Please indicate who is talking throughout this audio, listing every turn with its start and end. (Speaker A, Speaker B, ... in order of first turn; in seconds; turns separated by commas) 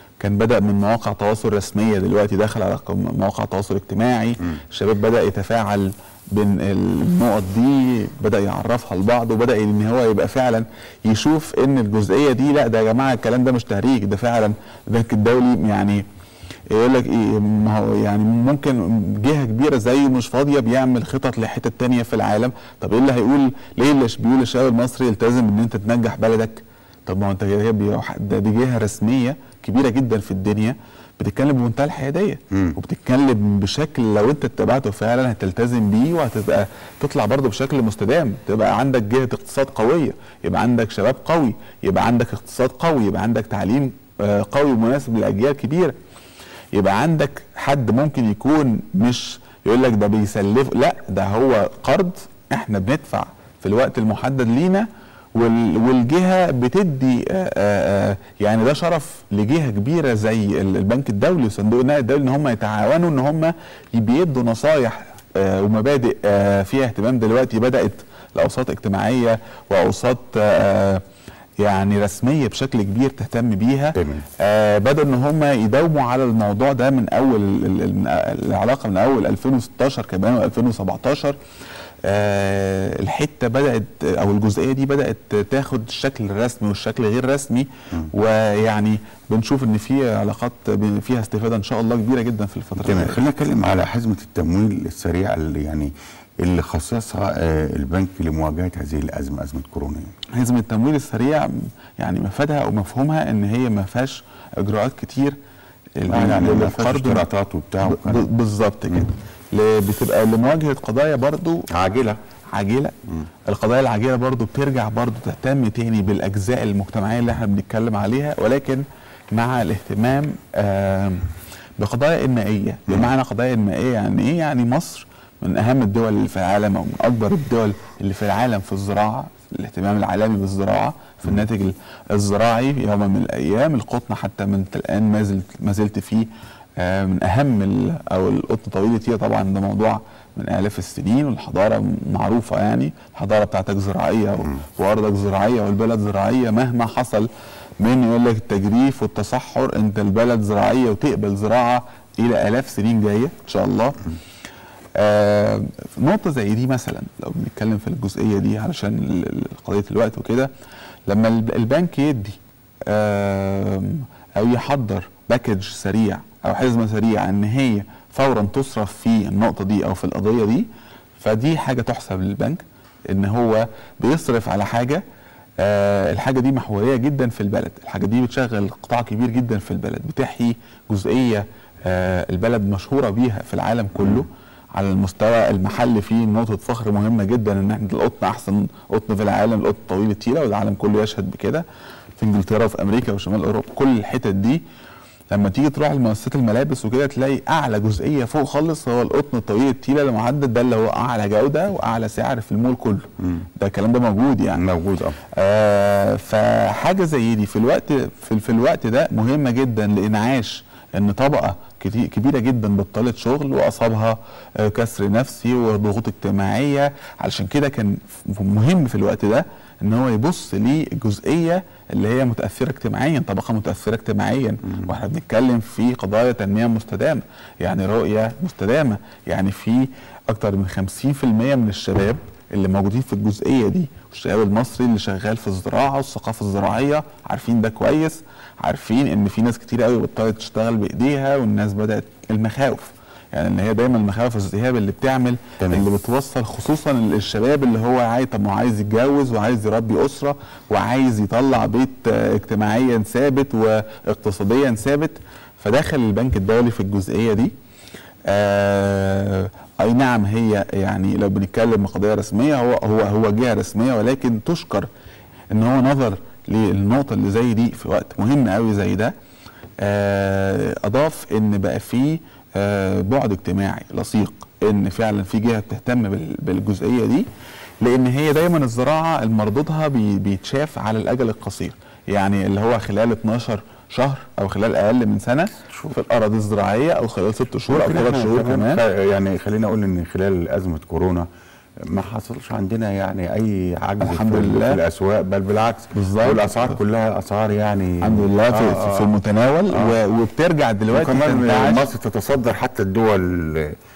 Speaker A: 0.2-16.0, Speaker A: 16.7-45.9, Speaker B: 32.5-32.8, Speaker A: 46.7-71.0, Speaker A: 71.6-81.3, Speaker B: 73.9-74.3, Speaker A: 82.0-93.2, Speaker B: 92.8-100.1, Speaker A: 100.3-105.4, Speaker A: 106.0-107.3, Speaker B: 106.1-108.3, Speaker A: 107.8-111.7, Speaker B: 111.7-112.2, Speaker A: 112.5-121.3, Speaker A: 121.8-147.3, Speaker A: 147.8-154.0, Speaker A: 155.0-160.5, Speaker A: 161.1-170.7, Speaker A: 171.2-175.0, Speaker A: 175.6-191.6, Speaker B: 184.0-184.2, Speaker A: 192.2-194.6, Speaker A: 195.3-204.6, Speaker B: 204.6-205.2, Speaker A: 205.3-257.5, Speaker B: 245.6-245.9, Speaker A: 258.3-264.9, Speaker A: 265.5-269.1, Speaker A: 269.8-277.2, Speaker A: 277.8-288.8, Speaker B: 287.7-291.3, Speaker B: 291.9-299.1, Speaker A: 294.0-294.8, Speaker A: 295.9-296.6, Speaker A: 298.0-301.9, Speaker B: 299.7-300.0, Speaker B: 300.9-303.8